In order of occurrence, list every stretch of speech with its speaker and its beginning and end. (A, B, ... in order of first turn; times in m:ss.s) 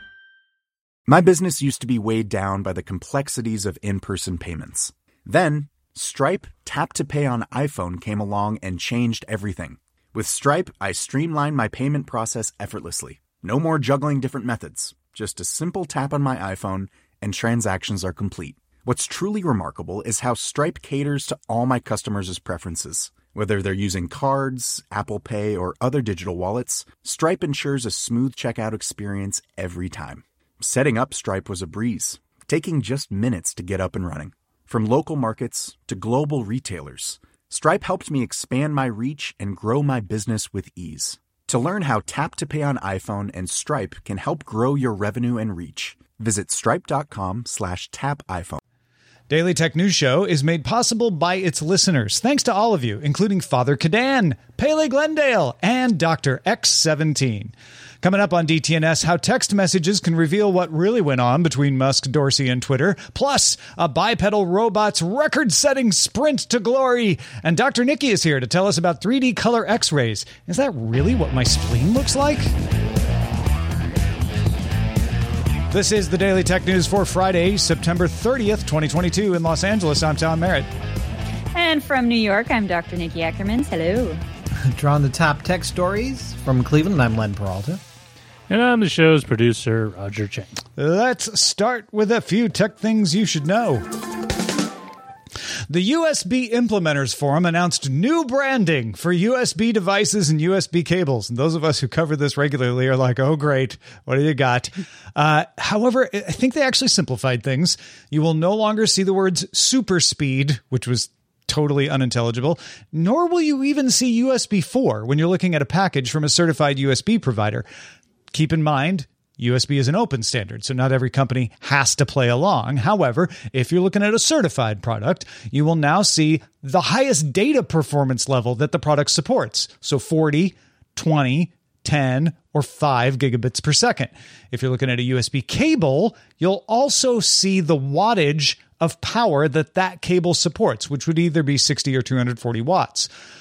0:01.1-0:48.6 A
0:49.3-1:12.5 B
1:15.7-1:20.7 B
1:21.5-1:24.2 C
1:24.7-1:27.8 D
1:28.5-1:30.5 E
1:30.8-1:33.8 B
1:35.7-1:57.7 B
1:58.3-2:23.1 B